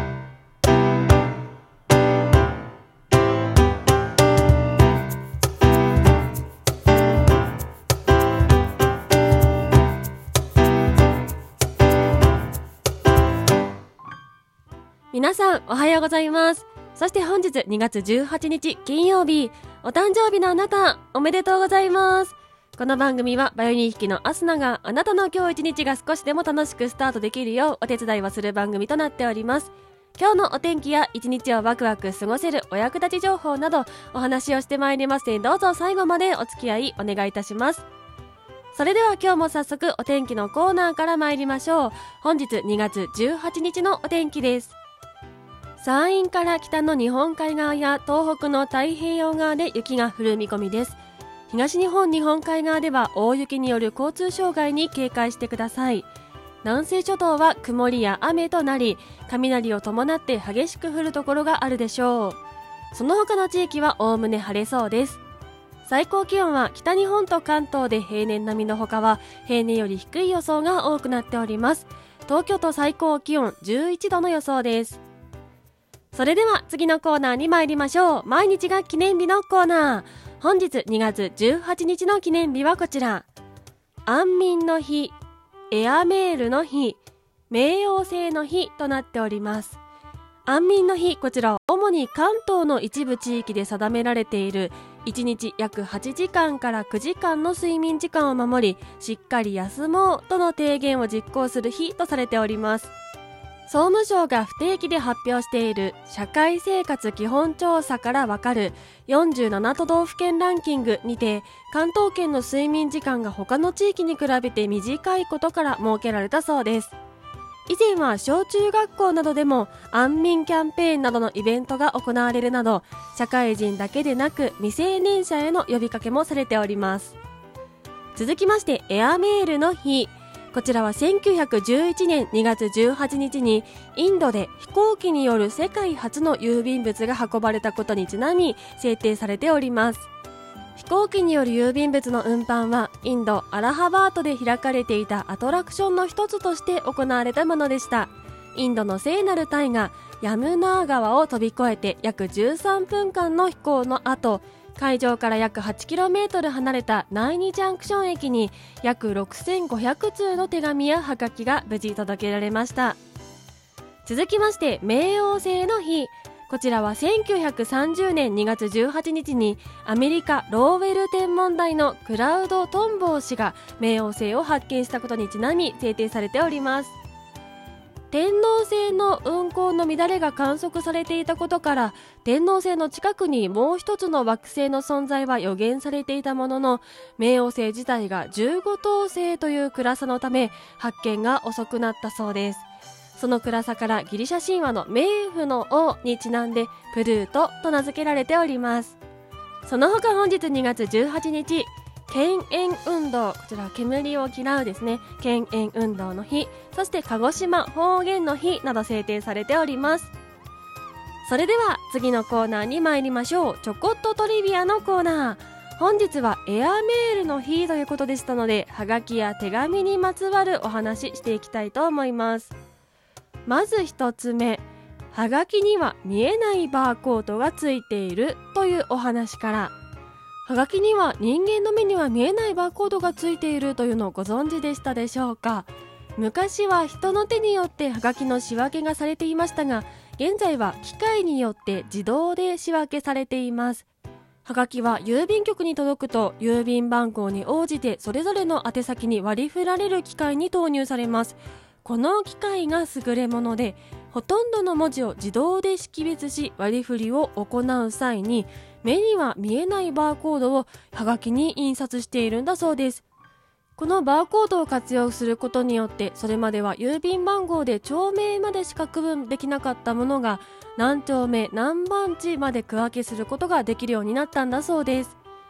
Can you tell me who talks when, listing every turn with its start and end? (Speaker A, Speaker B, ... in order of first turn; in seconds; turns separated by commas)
Speaker A: 15.1-37.9, Speaker A: 38.7-44.8, Speaker A: 45.8-51.0, Speaker A: 51.5-56.1, Speaker A: 56.6-62.4, Speaker A: 62.9-65.2, Speaker A: 65.8-75.0, Speaker A: 76.1-83.3, Speaker A: 84.1-85.2, Speaker A: 85.7-89.8, Speaker A: 90.5-102.9, Speaker A: 103.7-117.0, Speaker A: 117.7-127.2, Speaker A: 128.2-140.1, Speaker A: 140.8-163.0, Speaker A: 164.1-177.0, Speaker A: 178.1-192.7, Speaker A: 193.2-199.0, Speaker A: 199.7-210.1, Speaker A: 211.2-222.6, Speaker A: 223.5-229.7, Speaker A: 230.5-243.9, Speaker A: 244.4-263.0, Speaker A: 263.8-275.2